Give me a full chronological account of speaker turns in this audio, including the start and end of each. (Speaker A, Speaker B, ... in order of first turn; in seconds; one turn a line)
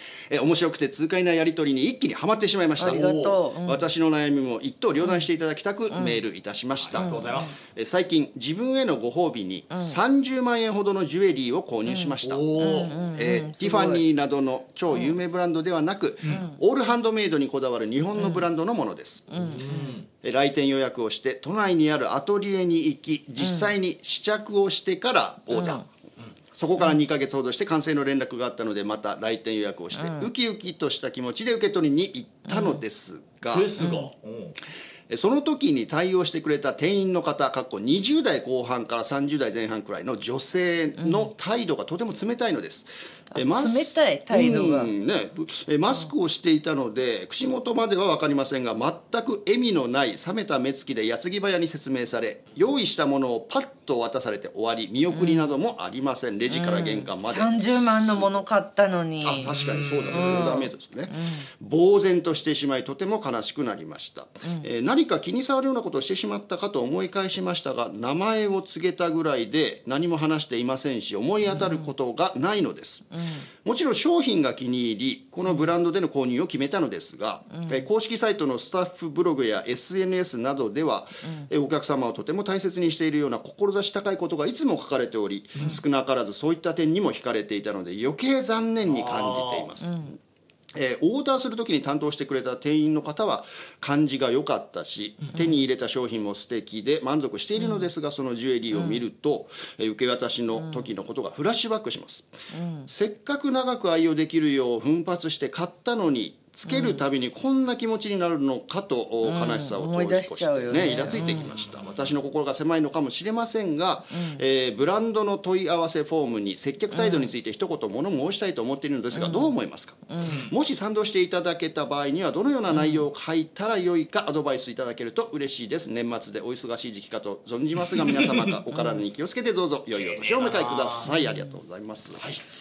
Speaker A: 0.3-12.4
Speaker B: 2.8-3.9
Speaker C: 2.8-3.3
Speaker B: 5.9-6.2
Speaker C: 6.9-7.6
Speaker B: 7.0-7.5
Speaker B: 9.7-10.0
Speaker B: 11.8-14.0
Speaker C: 12.2-12.9
Speaker A: 13.1-19.6
Speaker B: 16.3-16.6
Speaker B: 18.2-18.4
Speaker B: 19.3-19.9
Speaker C: 19.6-20.1
Speaker A: 20.2-25.8
Speaker B: 23.4-23.7
Speaker B: 25.5-25.8
Speaker A: 26.5-33.7
Speaker B: 29.9-30.3
Speaker B: 32.5-32.8
Speaker C: 33.5-34.5
Speaker B: 33.8-34.1
Speaker A: 35.1-58.4
Speaker B: 41.0-41.3
Speaker B: 43.3-44.9
Speaker B: 55.1-55.5
Speaker B: 56.5-59.6
Speaker A: 59.2-73.0
Speaker C: 59.5-60.5
Speaker B: 60.1-61.5
Speaker B: 71.5-71.9
Speaker B: 73.1-73.5
Speaker A: 73.6-90.2
Speaker B: 77.5-77.8
Speaker B: 81.2-81.5
Speaker C: 88.8-89.7
Speaker B: 89.8-90.1
Speaker A: 90.7-102.3
Speaker B: 97.6-97.9
Speaker B: 98.7-99.0
Speaker B: 100.5-100.9
Speaker B: 102.5-102.9
Speaker A: 102.9-132.4
Speaker B: 106.7-107.0
Speaker B: 109.2-111.5
Speaker C: 110.9-112.0
Speaker B: 114.1-114.4
Speaker B: 116.9-117.3
Speaker B: 119.1-119.5
Speaker B: 120.1-120.5
Speaker C: 120.2-120.5
Speaker C: 127.9-128.6
Speaker B: 128.7-129.0
Speaker C: 129.9-131.2